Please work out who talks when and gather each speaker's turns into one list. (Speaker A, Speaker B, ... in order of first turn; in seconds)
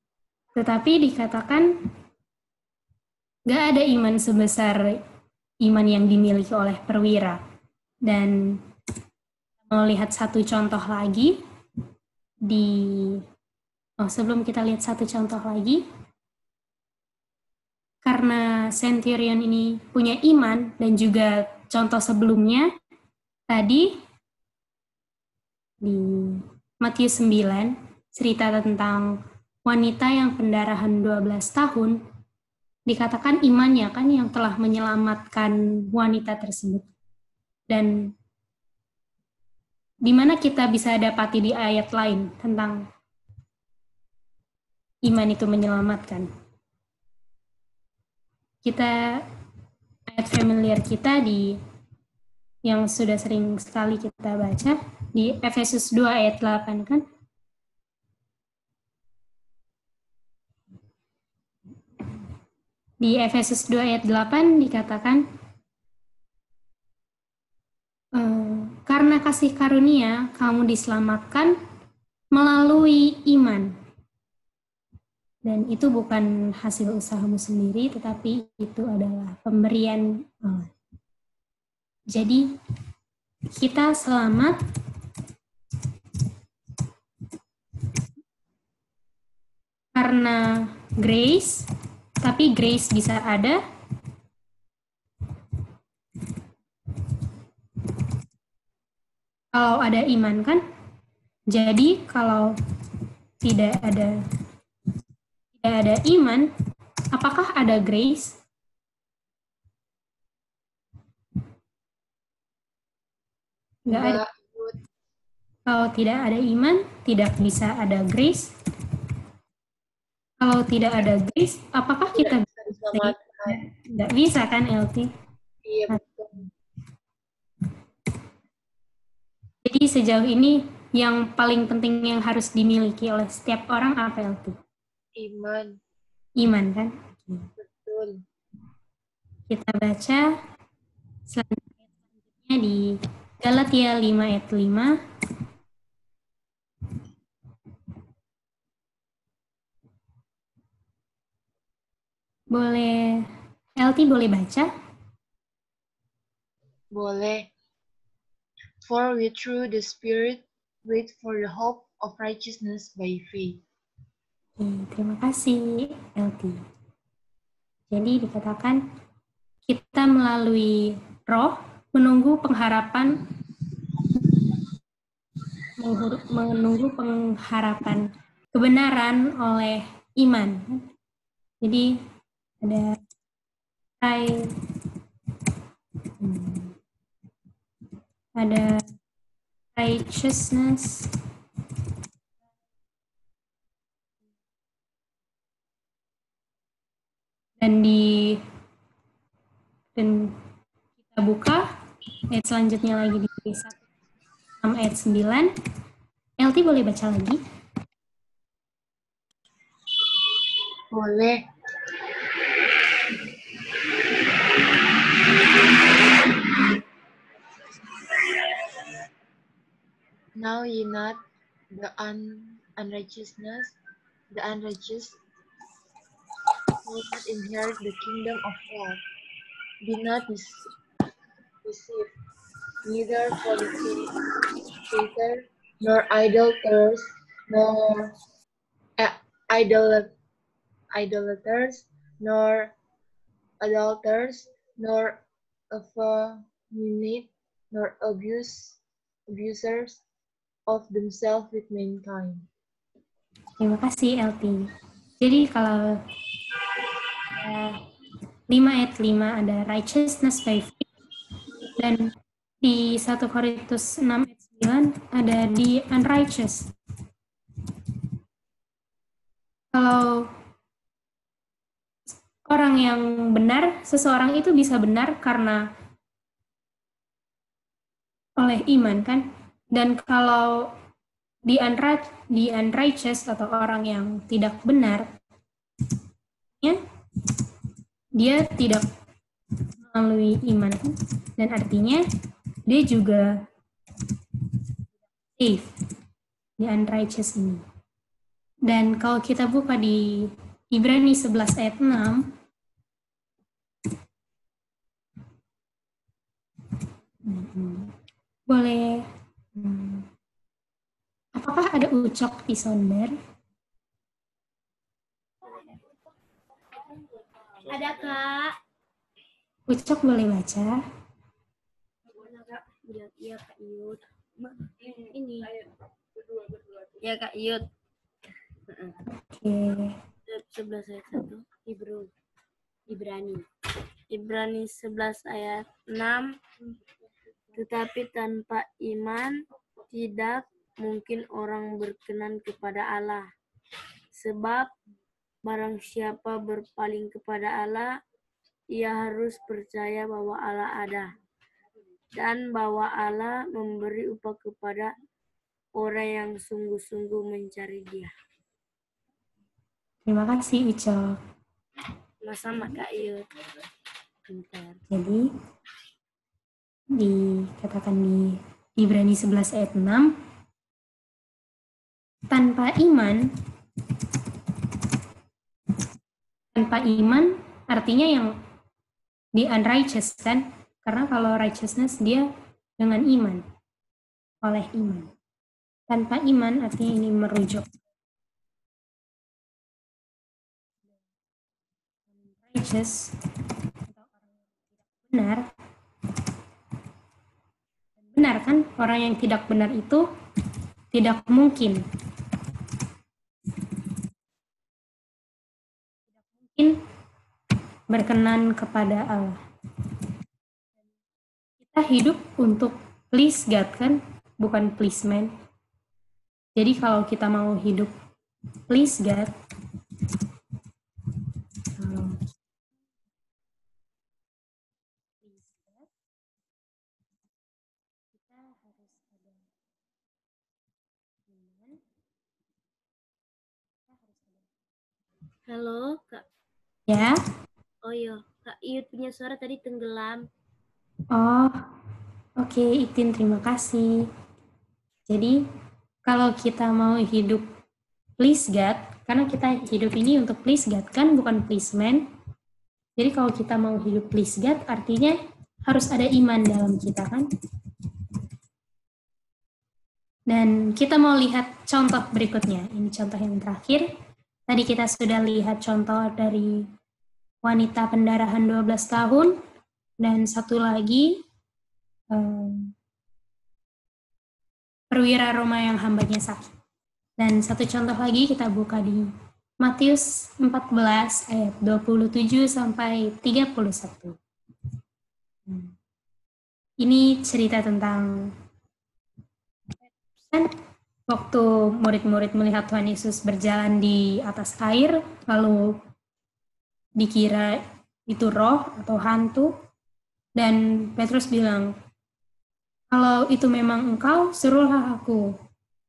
Speaker A: 0.6-1.7, 3.5-4.8, 5.6-7.4, 8.1-8.3, 9.7-11.3, 12.5-13.2, 14.0-15.8, 18.0-22.7, 23.5-23.9, 25.8-29.1, 29.6-32.0, 32.9-36.9, 37.7-38.0, 40.0-42.8, 45.0-46.3, 48.6-49.2, 50.1-51.6, 52.6-57.0, 63.0-65.2, 68.2-71.5, 72.3-73.7, 75.5-80.7, 82.1-82.5, 83.6-84.6, 90.0-90.4, 91.0-91.7, 92.2-93.6, 99.5-100.6, 101.5-102.5, 103.4-104.1, 105.6-106.5, 107.1-108.4, 113.9-114.2, 115.7-118.5, 120.4-125.1, 129.7-134.5, 136.4-137.5, 139.5-140.2, 141.3-141.7, 142.4-144.9, 152.5-153.2, 153.8-154.7, 164.6-166.6, 167.9-168.8, 169.7-173.2, 175.8-180.8, 181.6-181.9, 182.6-183.0, 184.0-184.5, 186.2-186.7, 188.4-188.8, 189.8-191.1, 197.6-198.4, 199.9-200.3, 201.1-201.6, 202.3-203.8, 204.6-205.5, 206.4-207.4, 253.6-254.7, 255.2-256.0, 257.3-257.8, 258.5-260.8, 261.8-262.1, 262.6-266.7, 269.7-270.3, 272.4-275.6, 278.4-279.2, 279.7-280.7, 281.5-285.1, 288.2-288.8, 289.9-292.0, 292.7-293.3, 295.4-295.7, 296.6-297.6, 298.7-302.2, 307.3-307.9, 308.5-309.0, 309.6-310.1, 311.4-313.1, 319.7-320.8, 329.2-329.9, 360.1-361.2, 364.9-365.3, 367.0-370.1, 372.3-373.3, 376.5-378.3, 379.3-382.3, 382.8-383.4, 384.4-385.1, 385.9-387.7, 392.2-393.1, 393.9-394.4, 395.0-395.4, 398.1-400.0, 400.9-401.8, 406.4-406.7, 407.9-409.4, 411.6-415.3, 416.6-417.9, 418.7-419.3, 421.8-422.2, 425.2-425.9, 428.2-429.4, 431.3-431.8, 433.9-434.4, 436.9-437.1, 441.1-441.5, 442.4-444.0, 445.1-445.4, 446.1-447.4, 448.2-452.0, 453.0-455.1, 455.7-457.2, 460.3-463.9, 464.5-466.7, 467.4-469.4, 470.0-471.2, 472.1-472.7, 474.9-476.5, 477.2-479.1, 479.6-484.2, 485.5-485.7, 486.8-488.3, 491.1-495.8, 497.0-499.5, 500.4-501.7, 502.9-505.3
Speaker B: 113.9-114.7, 122.2-123.6, 125.7-126.5, 135.2-135.8, 137.6-138.2, 156.9-157.4, 158.8-163.6, 210.9-211.9, 220.4-221.2, 221.7-223.8, 224.3-225.2, 226.8-229.0, 229.8-230.6, 231.6-232.1, 232.8-234.2, 234.8-238.1, 239.0-240.1, 240.9-242.7, 243.6-245.2, 245.7-248.8, 249.3-250.0, 250.7-252.4
Speaker C: 317.6-318.6, 322.1-325.5, 326.8-327.6, 328.7-329.0, 330.3-332.1, 332.9-333.4, 334.1-336.4, 337.5-339.3, 339.9-343.2, 344.2-344.7, 345.4-347.9, 348.7-351.1, 352.2-354.9, 355.8-358.1, 362.2-363.2, 364.3-364.8, 435.5-436.2, 437.8-440.2